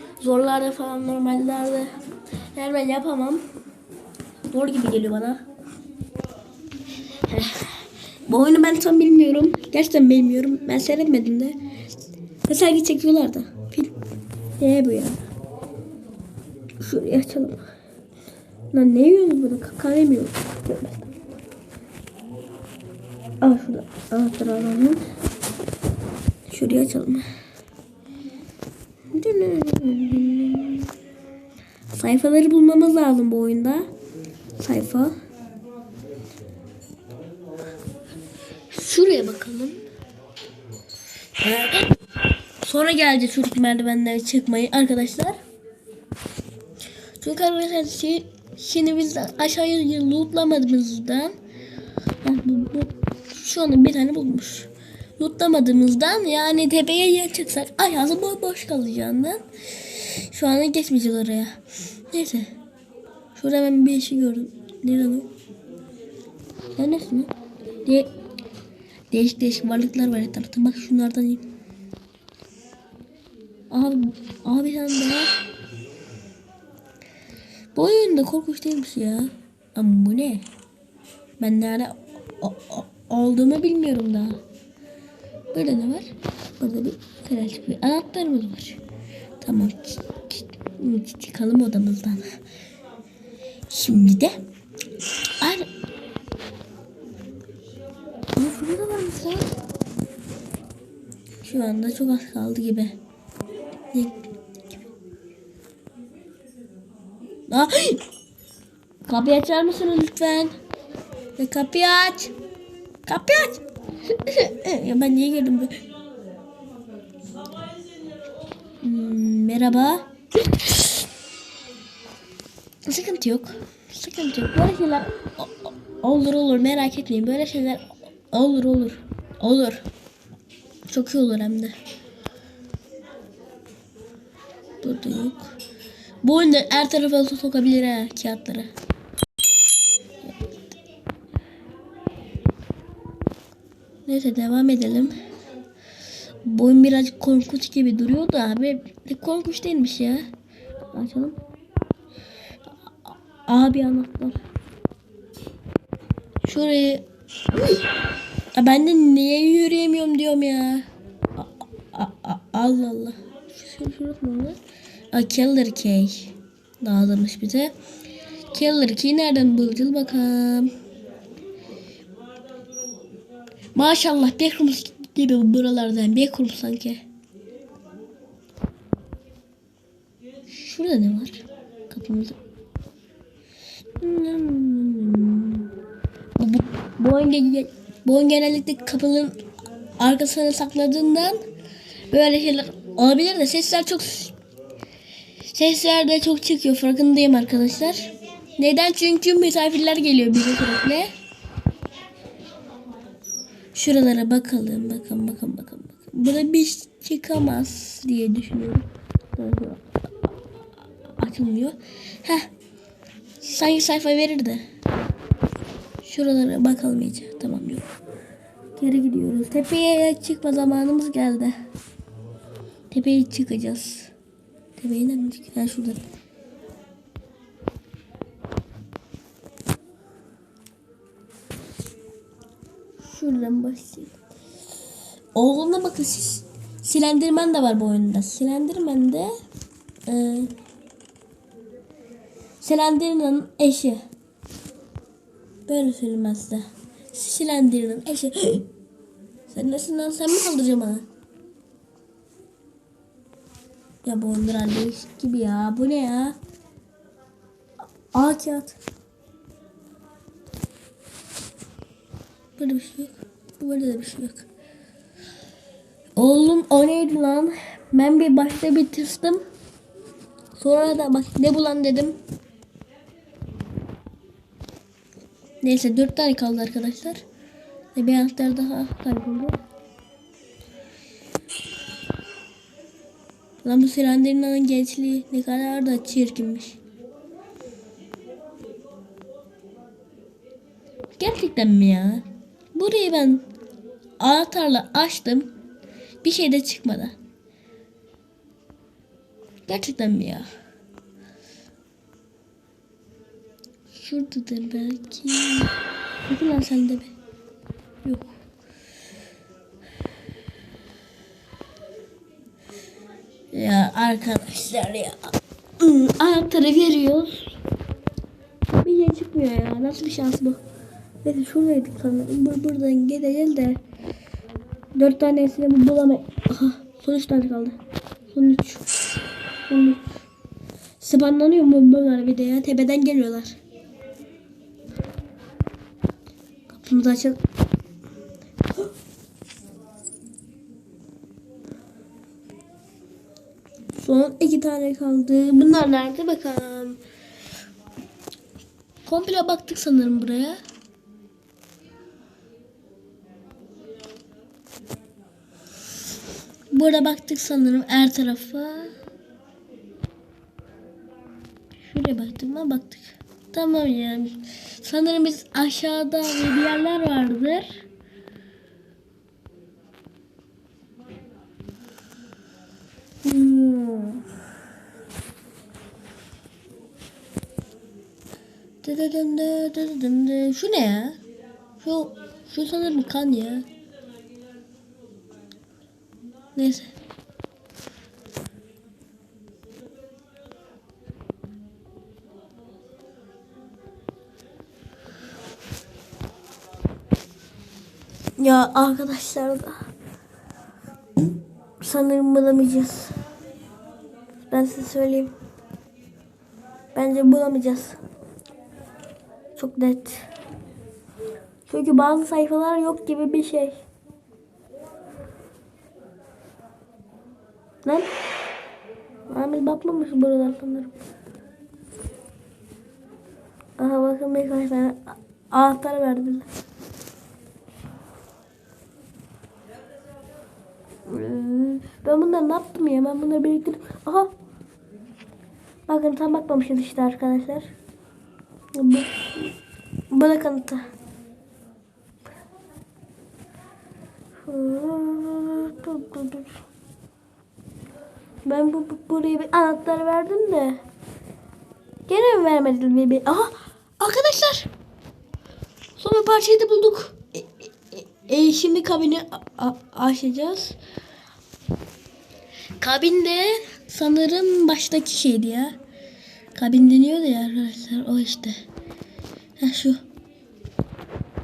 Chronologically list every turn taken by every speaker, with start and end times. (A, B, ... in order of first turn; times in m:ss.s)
0:00.2-0:01.9 A
0:02.5-0:03.4 A
0:04.5-0:05.4 A
0:07.2-0:11.6 A
0:12.5-0:14.0 A
0:14.6-0:15.2 A
0:16.8-0:17.7 A
0:18.7-0:21.1 A
0:23.4-0:25.0 A
0:26.5-0:27.2 A
0:29.1-0:30.9 A
0:31.9-0:33.9 A
0:34.6-0:35.1 A
0:38.7-0:39.8 A
0:41.4-0:41.9 A
0:42.6-0:45.4 A
0:47.2-0:51.4 A
0:52.2-1:02.5 A
1:03.4-1:05.3 A
1:06.8-1:07.3 A
1:09.1-1:11.5 A
1:13.7-1:15.3 A
1:17.7-1:20.4 A
1:21.4-1:24.4 A
1:25.5-1:28.8 A
1:29.4-1:32.4 A
1:33.7-1:34.4 A
1:35.4-1:35.7 A
1:38.4-1:39.5 A
1:41.4-1:43.0 A
1:43.9-1:44.2 A
1:47.5-1:48.0 A
1:49.1-1:50.5 A
1:51.4-1:52.3 A
1:53.0-1:55.8 A
1:58.8-2:01.0 A
2:02.8-2:09.8 A
2:10.9-2:11.7 A
2:14.8-2:15.5 A
2:16.2-2:18.7 A
2:24.0-2:25.2 A
2:26.4-2:30.3 A
2:30.9-2:31.4 A
2:33.0-2:34.4 A
2:36.4-2:37.0 A
2:38.5-2:44.6 A
2:45.1-2:47.7 A
2:48.5-2:50.7 A
2:53.7-2:57.0 A
3:00.5-3:02.4 A
3:04.0-3:05.7 A
3:06.4-3:09.4 A
3:10.0-3:11.4 A
3:12.1-3:14.3 A
3:15.5-3:21.1 A
3:23.7-3:29.8 A
3:31.2-3:32.5 A
3:33.4-3:34.6 A
3:36.0-3:37.9 A
3:38.8-3:41.5 A
3:42.9-3:44.1 A
3:44.8-3:46.0 A
3:53.0-3:54.2 A
3:55.3-3:59.3 A
4:00.1-4:00.5 A
4:02.6-4:04.0 A
4:05.7-4:08.7 A
4:09.5-4:11.0 A
4:14.0-4:16.4 A
4:18.1-4:18.8 A
4:22.6-4:24.5 A
4:26.2-4:29.4 A
4:30.5-4:32.2 A
4:35.6-4:37.2 A
4:37.9-4:39.6 A
4:43.6-4:46.8 A
4:51.2-4:53.4 A
4:54.2-4:55.5 A
4:56.2-4:57.1 A
4:59.7-5:00.5 A
5:03.9-5:05.7 A
5:06.2-5:07.1 A
5:08.0-5:08.3 A
5:13.5-5:17.6 A
5:18.7-5:20.6 A
5:21.2-5:23.8 A
5:24.9-5:27.8 A
5:28.3-5:28.8 A
5:29.7-5:30.0 A
5:31.0-5:33.6 A
5:36.7-5:37.4 A
5:43.9-5:47.0 A
5:49.0-5:50.6 A
5:56.7-5:58.9 A
6:01.8-6:07.8 A
6:13.2-6:14.2 A
6:18.8-6:21.2 A
6:21.8-6:23.6 A
6:26.6-6:26.9 A
6:38.4-6:39.9 A
6:41.8-6:43.1 A
6:44.5-6:45.3 A
6:46.9-6:48.0 A
6:49.6-6:50.2 A
6:51.7-6:53.8 A
6:59.3-7:00.9 A
7:03.8-7:06.5 A
7:11.0-7:14.3 A
7:15.9-7:17.7 A
7:18.7-7:19.5 A
7:20.1-7:20.8 A
7:24.4-7:26.6 A
7:28.4-7:30.8 A
7:32.1-7:34.7 A
7:36.0-7:40.8 A
7:42.8-7:45.8 A
7:46.5-7:48.6 A
7:49.6-7:50.0 A